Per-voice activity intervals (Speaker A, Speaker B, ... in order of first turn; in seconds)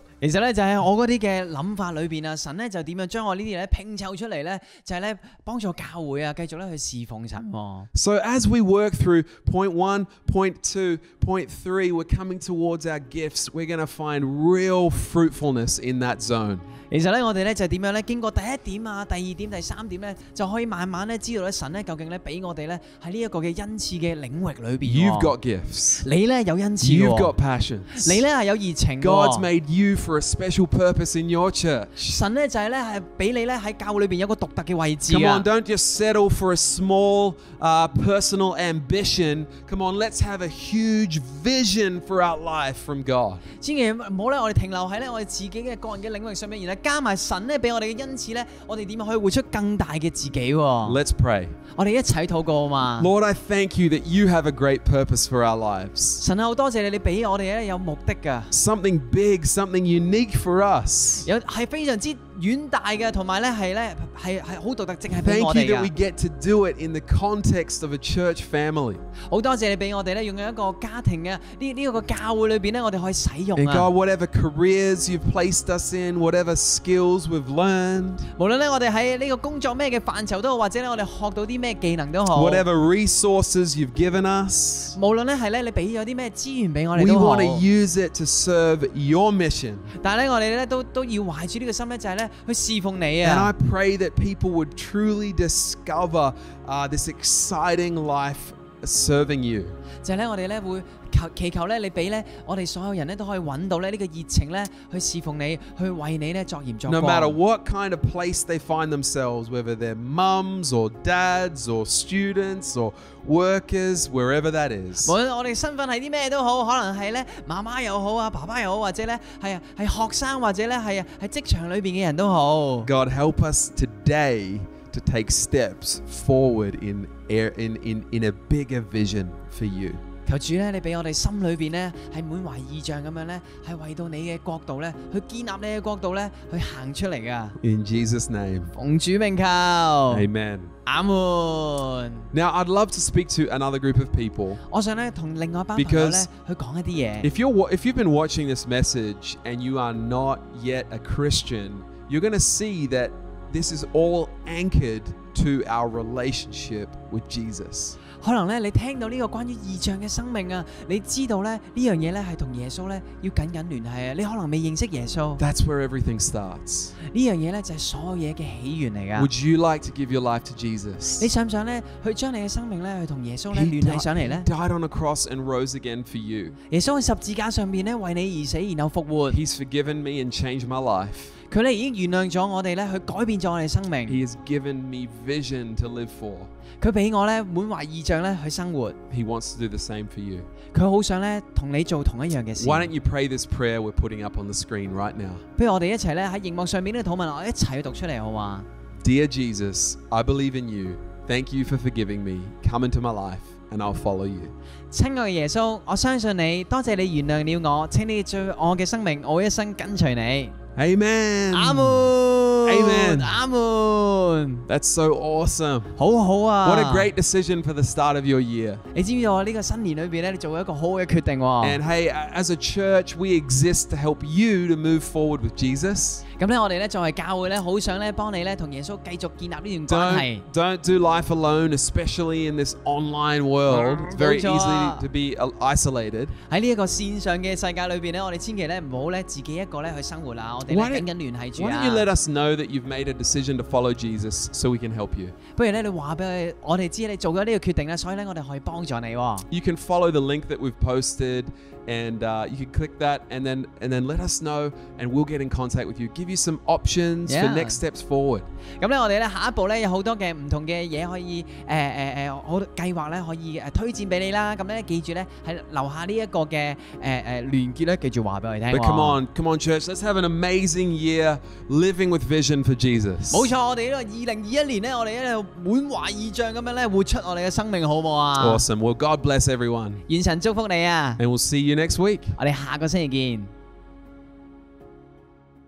Speaker A: 0.2-7.9, 16.9-25.3, 26.0-27.3, 27.9-29.5, 32.1-35.5, 43.6-51.0, 51.7-53.1, 56.2-58.5, 61.2-65.9, 69.3-73.9, 78.4-82.7, 84.9-87.7, 90.0-93.5, 100.0-107.4, 115.0-122.9, 130.3-137.6, 138.7-140.2, 140.9-142.3, 144.7-147.3, 158.2-165.4, 167.0-169.3, 171.2-174.5, 176.7-179.4, 181.5-184.2, 186.8-189.0, 190.7-192.9, 195.6-198.7, 204.9-210.6, 211.5-214.7, 216.0-217.1, 218.9-221.8, 226.3-230.4, 233.7-235.1, 236.4-242.1, 245.6-249.5, 257.2-257.8, 258.8-269.2, 273.3-278.6, 280.1-281.2, 282.4-283.5
Speaker B: 7.9-16.6, 24.9-26.1, 26.8-28.2, 29.0-32.2, 35.1-43.4, 50.9-51.6, 53.0-56.2, 58.5-61.3, 65.1-69.0, 73.6-78.3, 82.3-85.0, 87.0-89.9, 93.2-99.8, 106.9-115.2, 122.8-130.0, 137.6-138.7, 140.1-140.7, 142.3-144.6, 145.8-146.3, 147.2-158.0, 165.4-166.9, 169.2-171.3, 173.5-176.6, 179.3-181.3, 184.1-186.5, 189.1-190.5, 192.6-195.4, 199.0-204.5, 210.8-213.4, 214.7-215.9, 216.6-218.8, 221.6-226.2, 229.9-236.3, 240.7-245.4, 249.5-258.5, 268.7-273.5, 278.4-280.0, 281.2-282.4